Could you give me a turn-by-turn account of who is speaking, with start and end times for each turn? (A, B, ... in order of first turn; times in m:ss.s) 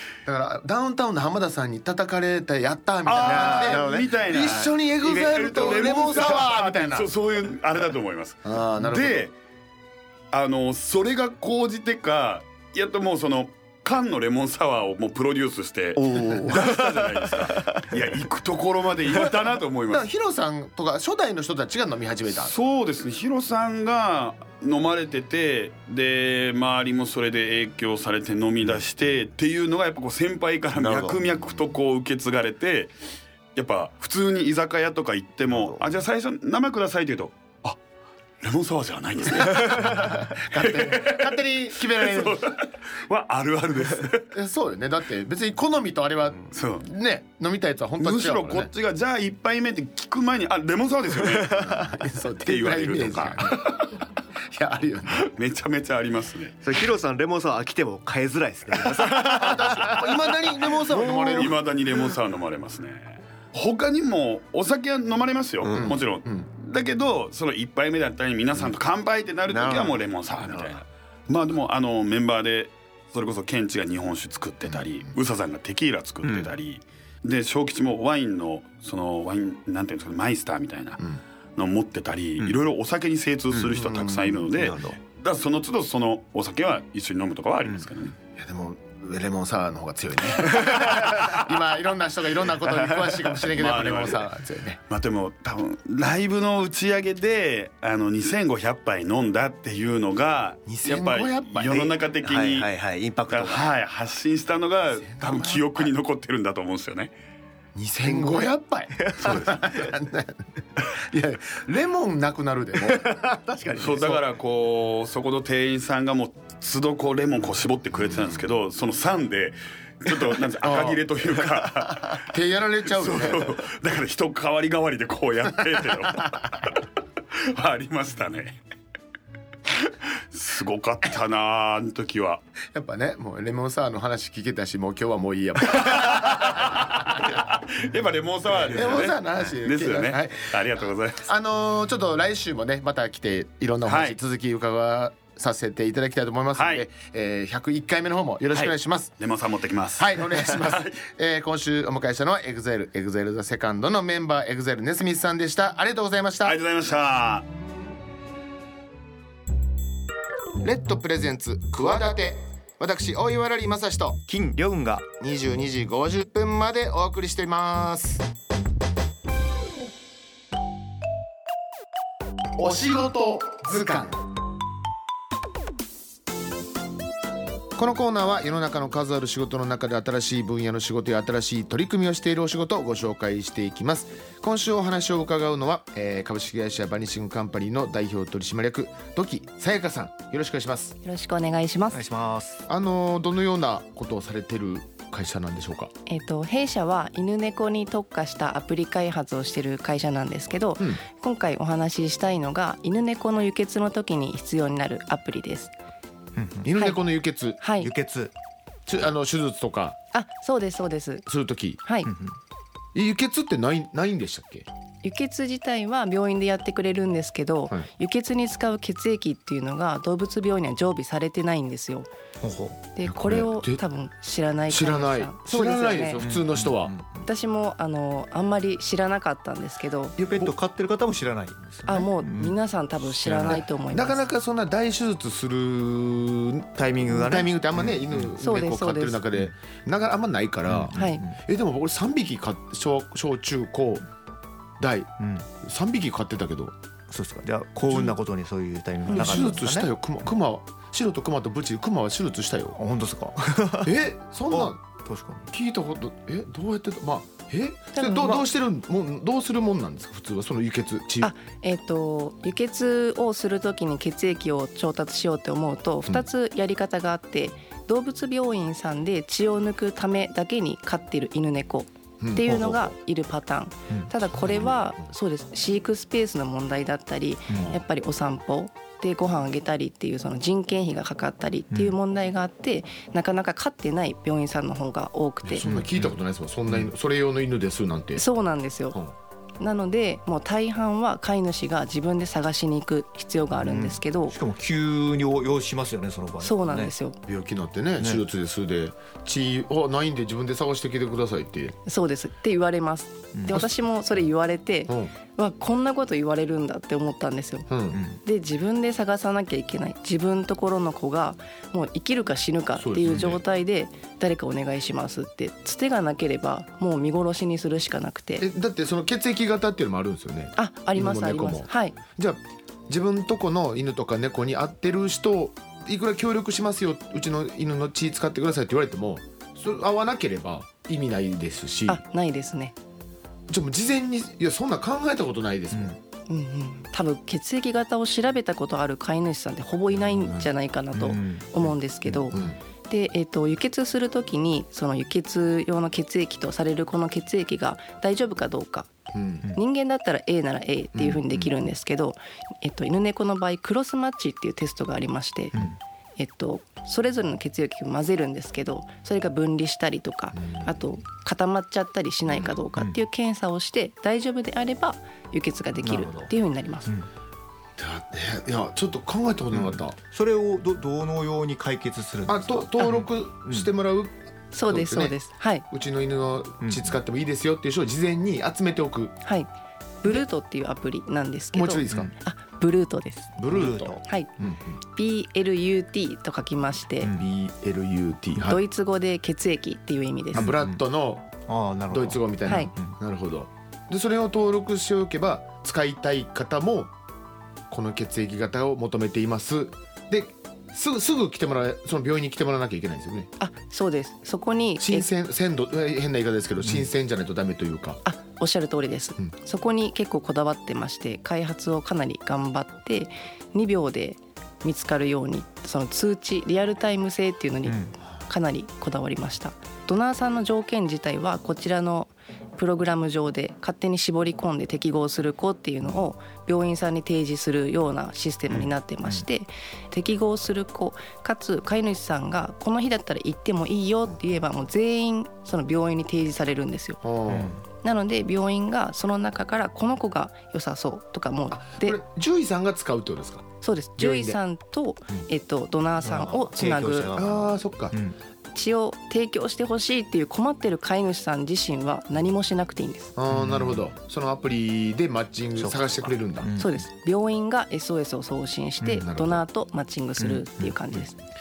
0:00.2-0:07.1 A
0:03.0-0:09.3 B
0:03.2-0:06.4 C
0:08.4-0:09.3 A
0:10.3-0:20.1 B
0:16.0-0:17.9 C
0:19.9-0:22.5 A
0:22.3-0:32.9 B
0:30.7-0:31.2 C
0:33.5-0:37.8 B
0:35.5-0:35.8 C
0:38.4-0:44.3 B
0:39.5-0:42.5 A
0:44.3-0:48.7 A
0:46.5-0:46.9 B
0:48.0-0:51.8 B
0:51.6-0:53.7 A
0:52.4-0:53.8 B
0:54.5-0:55.3 A
0:55.2-0:56.6 B
0:56.6-1:01.5 C
0:59.1-1:01.6 A
1:01.3-1:28.2 B
1:05.6-1:05.9 C
1:05.8-1:06.5 A
1:09.5-1:10.0 C
1:23.8-1:24.5 A
1:24.6-1:25.0 C
1:28.4-1:34.8 A
1:33.4-1:34.3 B
1:34.9-1:42.7 B
1:40.6-1:42.0 A
1:42.2-1:43.7 C
1:43.3-1:47.1 B
1:45.0-1:45.9 A
1:47.7-1:53.2 A
1:48.1-1:48.4 C
1:49.0-1:49.5 C
1:49.2-1:49.6 B
1:52.9-1:54.2 C
1:53.8-2:02.3 B
2:00.6-2:01.0 A
2:02.2-2:03.6 A
2:02.9-2:08.6 B
2:09.7-2:12.4 B
2:12.7-2:17.3 A
2:15.8-2:21.3 B
2:18.7-2:29.1 A
2:23.8-2:24.2 B
2:26.6-2:26.8 B
2:28.5-2:31.0 B
2:30.0-2:36.6 A
2:36.4-2:37.4 B
2:40.6-2:44.2 A
2:44.3-2:45.1 D
2:45.2-2:48.2 A
2:52.6-2:54.2 A
2:57.8-3:11.0 A
3:11.0-3:12.0 E
3:11.9-3:12.6 D
3:12.7-3:15.9 A
3:16.1-3:25.7 E
3:26.4-3:26.7 D
3:26.6-3:27.6 A
3:26.7-3:27.0 E
3:27.6-3:27.9 E
3:27.8-3:28.3 D
3:28.9-3:30.0 A
3:30.1-3:31.3 E
3:31.3-3:31.8 A
3:31.8-3:32.1 E
3:32.1-3:32.4 D
3:32.9-3:34.7 A
3:35.0-3:42.1 E
3:42.4-3:42.8 D
3:42.9-3:46.2 E
3:43.0-3:43.8 A
3:44.7-3:46.9 A
3:46.2-3:47.2 D
3:47.2-3:50.2 E
3:50.2-3:53.6 D
3:51.8-3:54.2 E
3:53.4-4:04.0 A
3:56.8-3:58.3 D
3:58.4-3:59.2 E
4:00.7-4:01.3 D
4:00.9-4:01.2 E
4:04.8-4:06.7 A
4:05.2-4:05.4 D
4:07.1-4:09.9 D
4:07.9-4:08.2 A
4:09.0-4:12.8 A
4:12.8-4:13.9 D
4:13.8-4:14.8 A
4:14.5-4:15.5 D
4:15.5-4:21.3 A
4:17.9-4:18.4 E
4:21.2-4:45.6 E
4:32.2-4:32.6 A
4:32.4-4:32.9 D
4:33.9-4:34.6 D
4:37.5-4:37.7 D
4:41.7-4:42.0 D
4:45.4-4:48.2 A
4:45.6-4:46.1 D
4:48.2-4:49.0 E
4:49.6-4:54.4 E
4:53.5-4:56.9 D
4:56.4-4:57.2 E
4:57.3-5:01.8 A
5:01.8-5:07.7 E
5:03.3-5:03.6 D
5:04.9-5:05.1 A
5:07.7-5:08.0 A
5:07.9-5:08.2 D
5:08.2-5:18.5 E
5:12.8-5:13.4 A
5:13.1-5:13.4 D
5:18.4-5:32.0 A
5:20.6-5:22.0 E
5:31.9-5:32.7 E
5:33.5-5:36.0 A
5:36.3-5:48.9 E
5:40.2-5:40.5 A
5:40.9-5:41.5 D
5:42.3-5:42.6 A
5:49.1-5:49.5 A
5:49.5-5:55.6 E
5:50.9-5:51.5 A
5:56.2-6:06.9 E
6:00.4-6:00.6 A
6:02.3-6:02.6 A
6:05.8-6:06.3 D
6:07.8-6:10.0 A
6:09.6-6:13.7 D
6:12.3-6:15.2 A
6:14.5-6:15.6 E
6:15.7-6:19.2 A
6:16.6-6:17.0 D
6:19.2-6:19.5 E
6:20.0-6:23.4 E
6:21.5-6:22.1 A
6:23.4-6:24.7 A
6:23.5-6:24.0 D
6:24.0-6:24.3 E
6:24.9-6:27.1 E
6:27.0-6:27.3 D
6:27.1-6:28.6 A
6:28.4-6:30.5 E
6:30.3-6:31.3 A
6:30.4-6:30.8 D
6:31.5-6:32.9 D
6:31.9-6:36.9 A
6:32.5-6:32.7 E
6:37.7-6:43.3 A
6:43.4-6:45.1 E
6:44.8-6:48.0 A
6:48.0-7:17.1 E
6:57.6-6:57.9 D
7:08.5-7:09.2 D
7:17.0-7:17.6 A
7:17.3-7:17.6 D
7:17.7-7:22.0 E
7:21.5-7:24.4 A
7:23.6-7:27.1 E
7:26.0-7:28.2 D
7:27.2-7:27.9 A
7:28.5-7:33.1 E
7:33.2-7:36.5 A
7:33.3-7:33.8 D
7:35.6-7:36.8 D
7:36.6-7:41.2 E
7:38.8-7:39.4 A
7:40.2-7:41.0 D